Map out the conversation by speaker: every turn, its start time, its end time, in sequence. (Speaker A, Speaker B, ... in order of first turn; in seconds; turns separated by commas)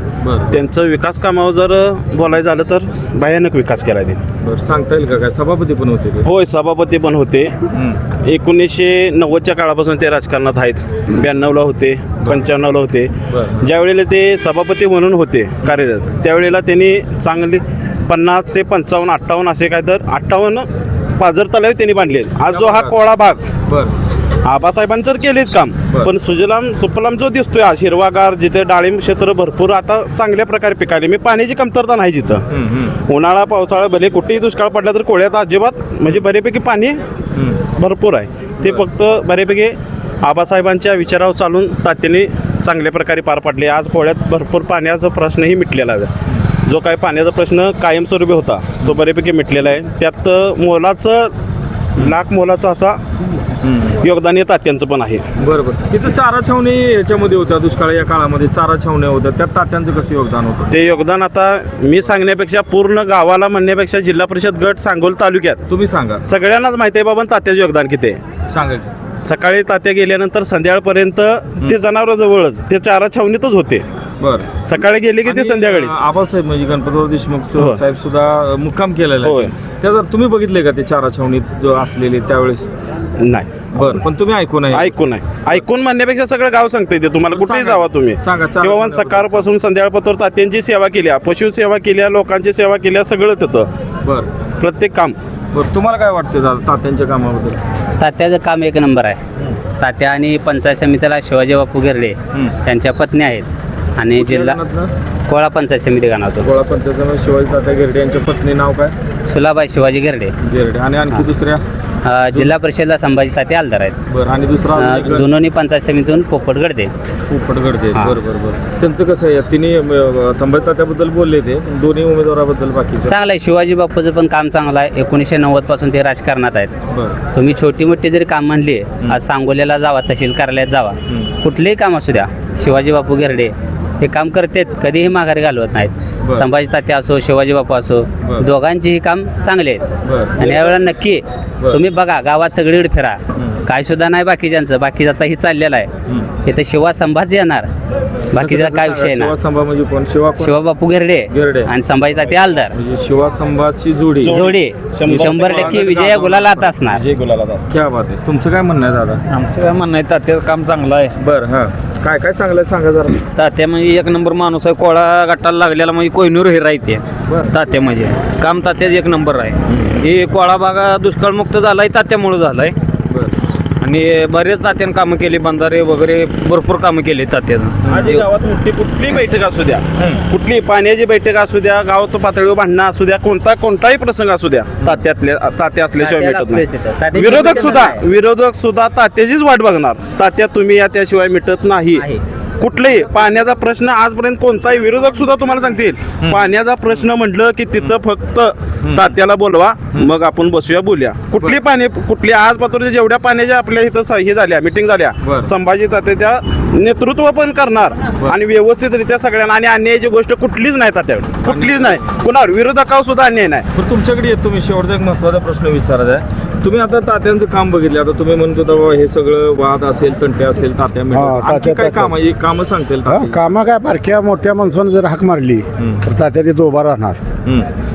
Speaker A: 0.2-0.6, Speaker B: 0.5-4.2, Speaker A: 4.4-6.3, Speaker B: 6.2-7.5, Speaker A: 7.7-8.0, Speaker B: 8.2-23.4, Speaker A: 13.3-13.7, Speaker A: 22.5-22.9, Speaker A: 23.6-23.9, Speaker B: 24.4-32.4, Speaker A: 32.5-33.0, Speaker B: 33.0-37.0, Speaker A: 37.3-37.6, Speaker B: 37.7-51.3, Speaker B: 52.0-53.0, Speaker A: 53.6-54.0, Speaker B: 54.0-55.3, Speaker A: 55.4-60.8, Speaker B: 60.7-65.6, Speaker A: 65.7-66.3, Speaker B: 66.2-68.2, Speaker A: 68.5-68.9, Speaker B: 69.2-73.8, Speaker A: 74.2-74.5, Speaker B: 74.6-76.0, Speaker A: 75.2-82.7, Speaker B: 79.2-79.5, Speaker B: 83.2-84.0, Speaker A: 83.7-85.6, Speaker B: 84.7-93.7, Speaker A: 87.3-89.5, Speaker A: 94.0-94.3, Speaker B: 94.6-95.2, Speaker A: 95.5-97.6, Speaker C: 98.0-99.2, Speaker C: 99.8-104.6, Speaker A: 104.1-104.9, Speaker C: 105.3-106.5, Speaker A: 106.4-108.9, Speaker C: 109.2-110.3, Speaker A: 110.4-111.6, Speaker C: 112.0-114.0, Speaker A: 114.1-115.3, Speaker C: 114.7-116.9, Speaker A: 117.3-123.2, Speaker C: 123.0-126.7, Speaker A: 126.9-127.2, Speaker C: 127.3-139.8, Speaker A: 131.1-131.3, Speaker A: 136.2-136.5, Speaker A: 138.2-138.5, Speaker A: 140.0-140.8, Speaker C: 140.4-145.9, Speaker C: 146.4-147.7, Speaker C: 148.3-149.3, Speaker A: 148.3-150.7, Speaker C: 150.4-152.7, Speaker A: 151.3-151.7, Speaker A: 152.7-154.4, Speaker B: 154.2-157.6, Speaker C: 154.2-157.0, Speaker A: 155.0-156.7, Speaker A: 157.7-159.2, Speaker D: 159.3-161.1, Speaker A: 161.2-163.2, Speaker D: 163.3-172.8, Speaker A: 167.3-167.5, Speaker A: 169.7-170.0, Speaker A: 173.1-173.4, Speaker D: 173.8-178.2, Speaker B: 177.8-192.1, Speaker A: 180.0-180.2, Speaker C: 186.0-188.0, Speaker C: 191.9-192.2, Speaker B: 192.6-213.7, Speaker A: 196.2-196.5, Speaker A: 198.8-199.1, Speaker A: 205.2-205.5, Speaker A: 211.4-212.0, Speaker A: 213.7-223.5, Speaker E: 221.1-222.2, Speaker E: 223.0-227.2, Speaker A: 225.8-226.1